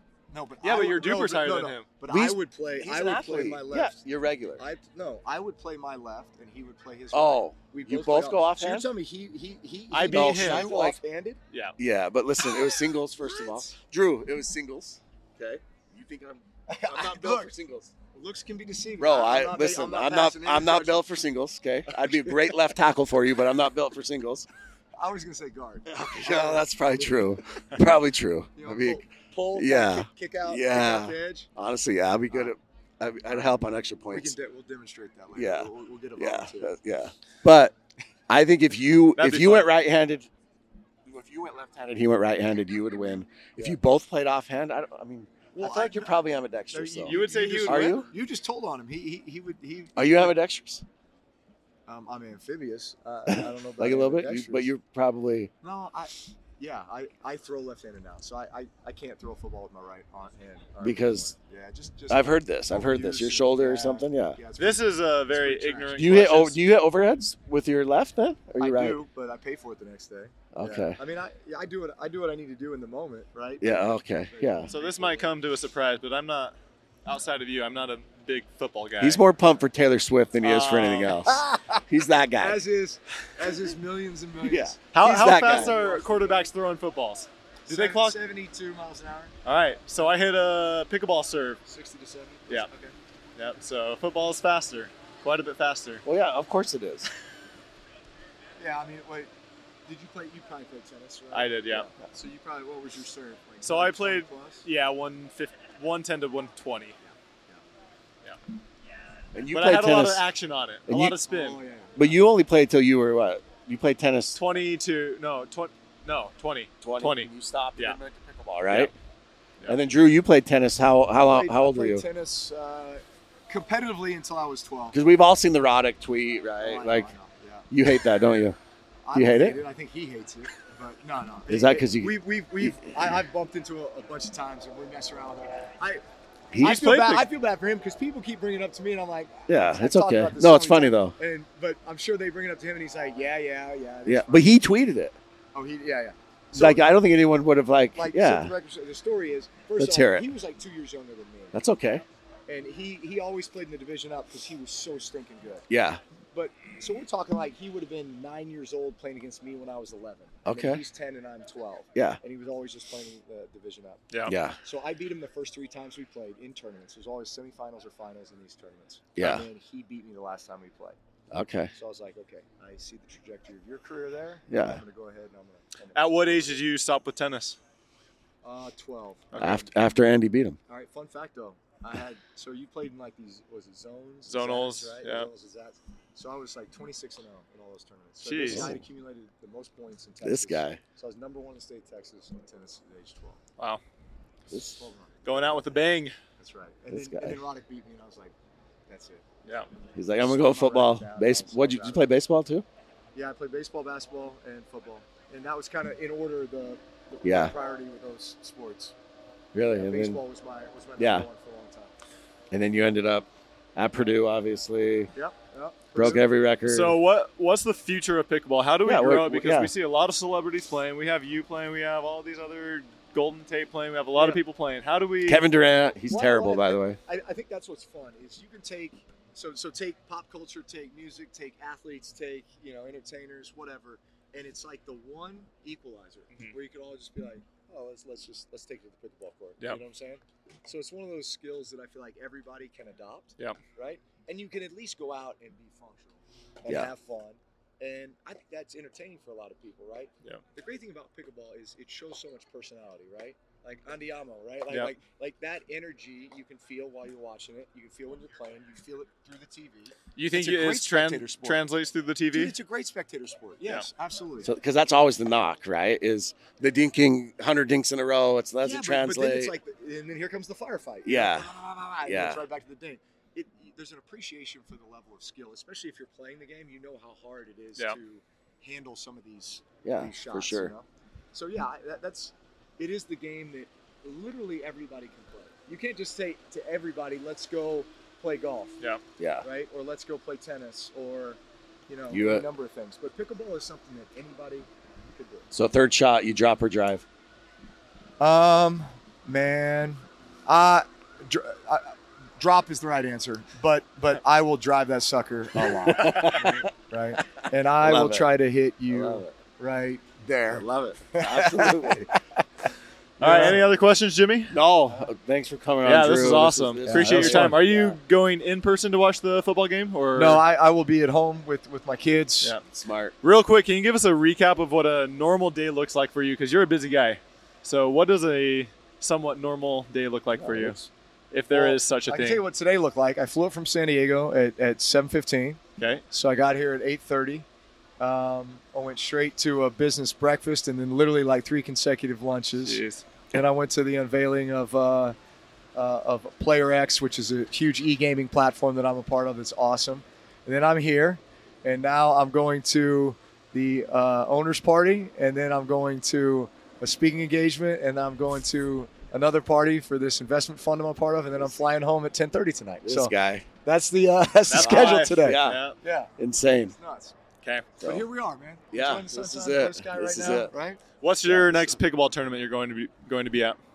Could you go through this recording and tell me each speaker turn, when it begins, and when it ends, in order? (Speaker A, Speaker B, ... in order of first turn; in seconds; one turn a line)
Speaker A: 0.3-4.0
Speaker B: 0.6-1.9
Speaker C: 2.1-4.6
Speaker A: 4.6-11.4
Speaker C: 7.1-8.9
Speaker B: 9.9-10.7
Speaker C: 10.1-11.0
Speaker C: 11.8-17.9
Speaker A: 12.4-13.7
Speaker A: 16.7-17.5
Speaker A: 18.1-21.1
Speaker C: 19.0-24.5
Speaker A: 21.9-22.8
Speaker A: 25.0-27.8
Speaker C: 25.9-34.4
Speaker A: 28.6-31.5
Speaker A: 33.3-33.5
Speaker A: 34.1-36.8
Speaker C: 35.4-37.7
Speaker C: 38.3-40.3
Speaker B: 39.2-39.7
Speaker C: 41.1-48.1
Speaker A: 45.6-50.4
Speaker B: 47.0-48.1
Speaker C: 50.0-50.9
Speaker A: 51.9-54.7
Speaker C: 53.3-55.5
Speaker A: 55.6-66.0
Speaker C: 60.8-61.3
Speaker C: 62.1-64.4
Speaker B: 64.6-66.6
Speaker C: 66.0-69.0
Speaker A: 68.6-75.4
Speaker C: 70.5-71.0
Speaker C: 73.6-74.7
Speaker B: 74.7-79.2
Speaker C: 79.0-82.6
Speaker B: 80.4-81.2
Speaker A: 81.2-81.8
Speaker A: 82.4-86.5
Speaker C: 84.4-85.8
Speaker B: 84.9-88.2
Speaker A: 87.7-89.3
Speaker B: 89.5-91.6
Speaker A: 91.7-93.0
Speaker B: 93.4-96.0
Speaker C: 96.0-97.1
Speaker A: 98.6-99.3
Speaker A: 99.9-104.7
Speaker B: 101.3-101.9
Speaker B: 103.6-107.0
Speaker A: 107.0-107.6
Speaker C: 109.3-110.2
Speaker B: 109.5-111.6
Speaker C: 110.9-111.2
Speaker A: 111.2-112.2
Speaker C: 112.0-114.4
Speaker B: 114.3-118.0
Speaker C: 116.8-118.9
Speaker C: 119.7-122.0
Speaker A: 121.2-125.0
Speaker C: 124.9-127.1
Speaker A: 126.6-127.7
Speaker C: 127.7-128.6
Speaker A: 129.1-136.0
Speaker C: 129.1-129.6
Speaker C: 131.5-132.7
Speaker C: 136.5-136.8
Speaker A: 136.6-144.5
Speaker B: 136.6-137.3
Speaker C: 139.5-141.2
Speaker C: 144.1-145.2
Speaker A: 145.5-146.9
Speaker C: 146.5-148.5
Speaker A: 148.0-151.6
Speaker C: 149.8-150.3
Speaker C: 151.5-152.0
Speaker A: 152.5-155.7
Speaker C: 155.7-156.0
Speaker A: 156.3-164.1
Speaker C: 160.4-160.8
Speaker C: 164.3-164.6
Speaker A: 164.6-171.0
Speaker C: 169.2-169.5
Speaker C: 171.3-171.7
Speaker A: 171.7-176.6
Speaker C: 174.5-174.8
Speaker B: 175.9-177.6
Speaker A: 178.4-179.5
Speaker B: 179.3-179.7
Speaker C: 179.4-180.6
Speaker A: 180.7-193.4
Speaker B: 184.3-185.3
Speaker B: 188.2-188.7
Speaker C: 188.4-188.8
Speaker C: 190.2-190.8
Speaker A: 194.5-195.7
Speaker C: 194.5-194.8
Speaker B: 195.2-196.2
Speaker A: 196.4-198.3
Speaker C: 196.9-197.4
Speaker A: 198.9-199.4
Speaker C: 199.9-202.7
Speaker A: 200.2-202.1
Speaker A: 203.1-208.9
Speaker C: 207.2-207.5
Speaker C: 209.5-210.2
Speaker A: 209.7-211.9
Speaker C: 211.0-211.3
Speaker C: 212.5-215.1
Speaker A: 215.2-216.3
Speaker C: 215.9-217.0
Speaker B: 216.7-225.4
Speaker C: 218.8-219.7
Speaker A: 224.2-224.4
Speaker C: 225.2-227.0
Speaker A: 226.1-261.7
Speaker B: 260.2-262.5
Speaker A: 262.3-264.5
Speaker C: 264.4-269.6
Speaker A: 268.6-288.8
Speaker C: 271.1-271.5
Speaker C: 272.1-272.4
Speaker C: 279.8-280.7
Speaker C: 289.2-289.5
Speaker A: 289.4-295.5
Speaker C: 292.1-292.5
Speaker C: 295.5-297.1
Speaker A: 298.2-312.4
Speaker C: 305.6-306.7
Speaker C: 307.3-308.3
Speaker C: 308.9-309.3
Speaker C: 310.4-312.1
Speaker A: 313.2-313.6
Speaker B: 313.2-314.6
Speaker C: 313.3-313.5
Speaker C: 314.5-318.0
Speaker B: 315.8-320.4
Speaker A: 316.9-317.6
Speaker A: 320.1-322.6
Speaker C: 322.7-323.1
Speaker B: 323.2-330.8
Speaker A: 330.4-330.9
Speaker B: 331.3-332.4
Speaker A: 331.5-335.6
Speaker B: 335.8-336.0
Speaker A: 336.1-337.5
Speaker A: 338.0-345.2
Speaker B: 342.6-343.0
Speaker A: 345.8-366.1
Speaker C: 362.8-363.5
Speaker B: 364.5-365.8
Speaker C: 364.5-365.6
Speaker C: 366.2-366.8
Speaker A: 366.8-367.2
Speaker A: 367.8-370.8
Speaker C: 368.7-370.5
Speaker B: 371.0-373.6
Speaker C: 371.3-371.7